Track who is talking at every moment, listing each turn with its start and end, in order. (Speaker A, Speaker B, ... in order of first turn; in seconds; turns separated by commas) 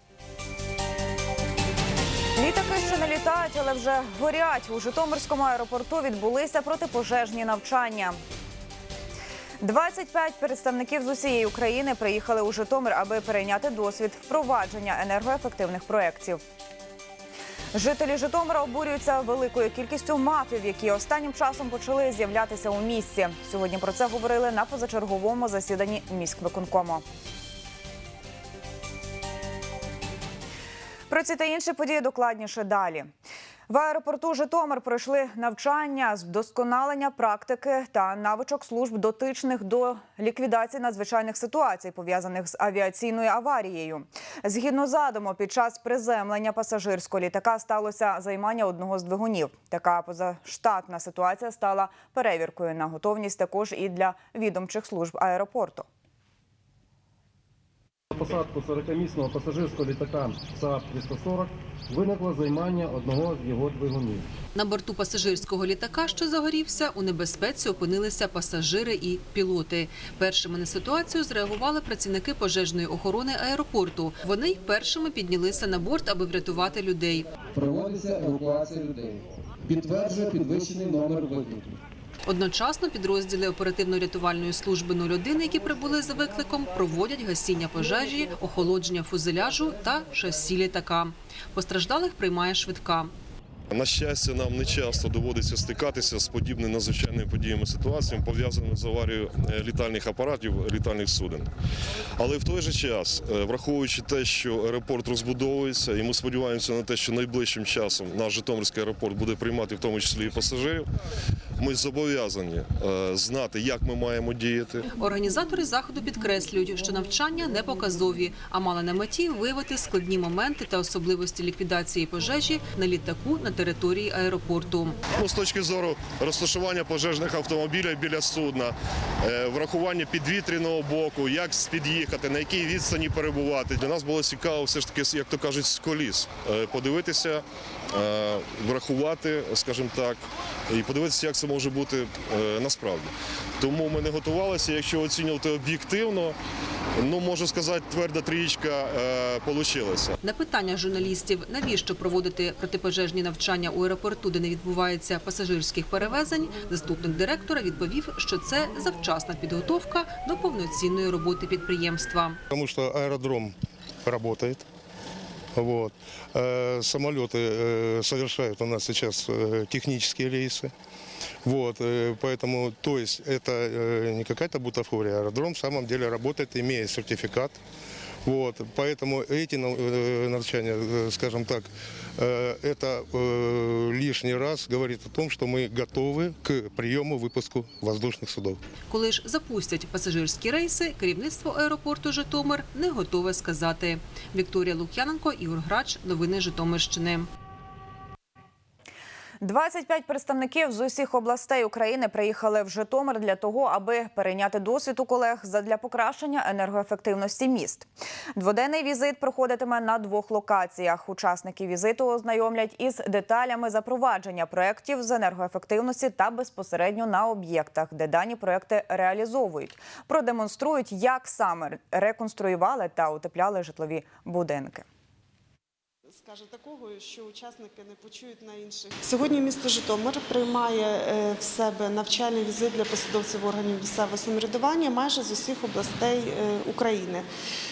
Speaker A: 2.4-8.2, Speaker A: 9.6-16.4, Speaker A: 17.7-27.0, Speaker A: 31.1-33.1, Speaker A: 33.7-55.9, Speaker B: 58.2-60.3, Speaker B: 62.4-63.9, Speaker C: 64.5-77.3, Speaker D: 77.6-79.0, Speaker D: 79.7-81.6, Speaker C: 82.2-93.1, Speaker E: 93.7-101.5, Speaker E: 102.2-110.9, Speaker E: 111.6-114.8, Speaker C: 114.9-125.0, Speaker E: 125.1-146.4, Speaker E: 146.9-150.1, Speaker C: 150.2-162.4, Speaker F: 162.5-163.5, Speaker F: 164.1-164.6, Speaker F: 165.6-167.7, Speaker F: 168.2-169.2, Speaker F: 169.8-170.7, Speaker F: 171.6-177.5, Speaker F: 178.3-188.6, Speaker C: 188.9-197.3, Speaker A: 199.4-224.8, Speaker G: 226.1-237.3